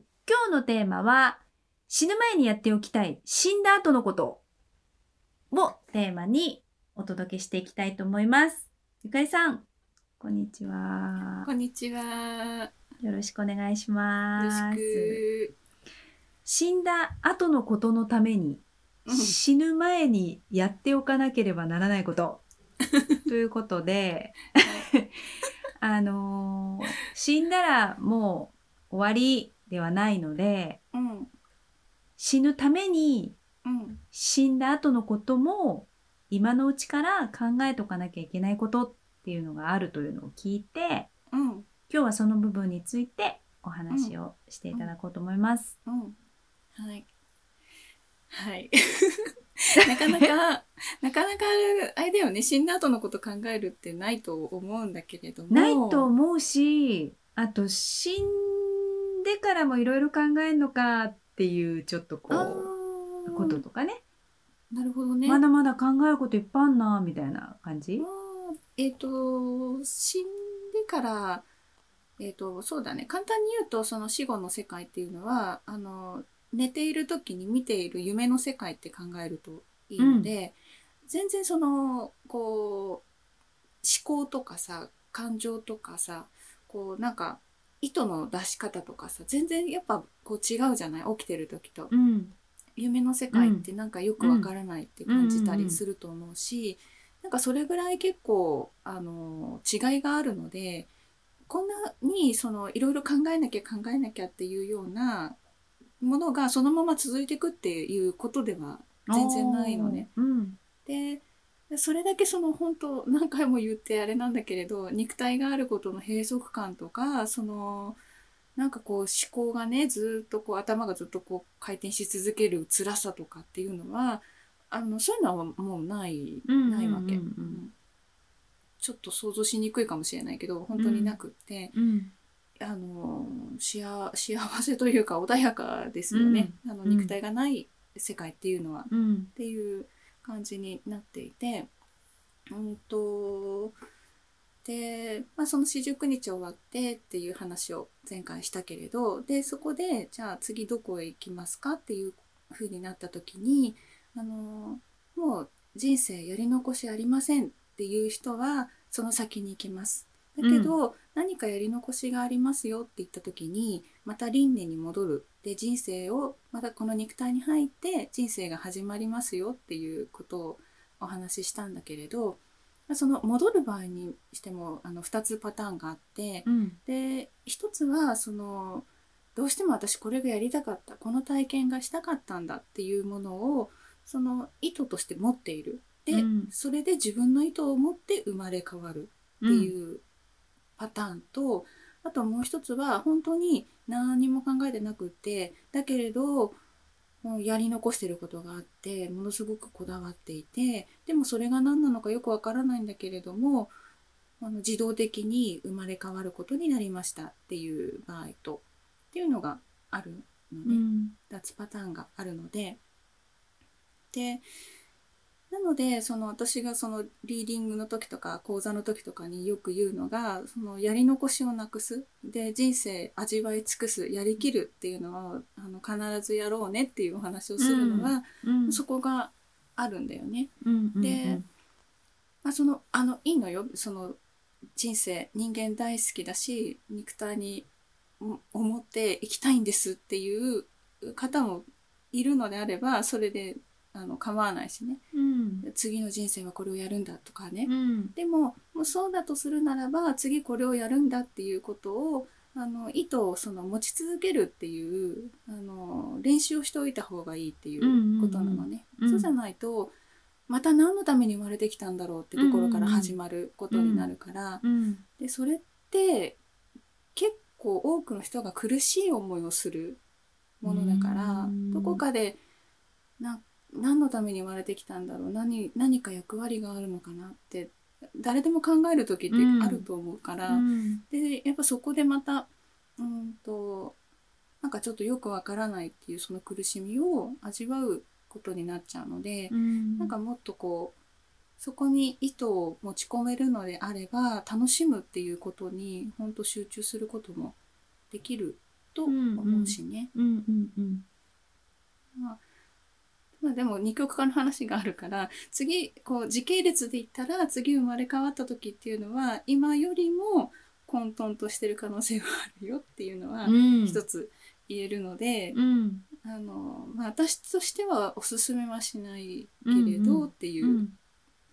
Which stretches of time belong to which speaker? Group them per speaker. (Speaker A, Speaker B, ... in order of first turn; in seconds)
Speaker A: 0.3-4.4, 5.5-9.7, 10.2-11.5, 13.0-15.2, 16.4-22.4, 23.3-25.1, 25.8-30.8, 32.2-33.4, 34.1-41.1, 41.9-45.7, 55.5-62.7, 63.3-64.0, 65.2-68.0, 80.0-80.3, 91.9-92.3, 93.3-93.6, 94.2-94.5, 95.1-95.8, 109.0-110.6, 126.5-127.6, 130.7-131.2, 131.7-132.1, 136.1-137.1, 138.9-139.3, 160.4-160.7, 176.4-176.8, 186.1-186.5, 189.4-189.7, 210.7-211.1, 227.6-228.8, 230.6-231.4, 245.1-245.7, 247.7-248.1, 257.8-259.3, 262.4-263.1, 263.7-264.1, 264.6-265.0, 270.6-272.0, 279.3-279.9, 280.5-281.0, 289.5-290.1, 299.1-301.0, 313.4-314.0, 315.5-316.0, 319.6-320.9
Speaker B: 11.4-12.7, 14.4-15.5, 19.1-19.4, 22.9-23.2, 24.6-24.9, 30.9-31.3, 33.6-34.0, 41.3-41.7, 43.9-44.1, 45.8-46.1, 46.7-47.0, 48.3-56.1, 62.3-63.6, 64.7-65.4, 68.0-71.5, 72.2-83.0, 83.8-91.9, 92.8-100.9, 101.5-105.4, 106.0-110.1, 110.8-118.0, 118.5-127.7, 128.8-131.7, 132.6-141.7, 142.5-143.8, 144.6-190.0, 190.8-196.6, 197.2-203.7, 204.4-212.8, 214.1-214.4, 215.5-231.4, 232.4-234.2, 234.7-237.7, 238.2-245.0, 245.6-259.9, 260.5-264.6, 265.2-266.4, 267.1-270.0, 270.6-272.4, 273.2-283.9, 284.6-290.9, 291.6-297.6, 298.1-300.1, 303.4-315.6, 316.2-320.8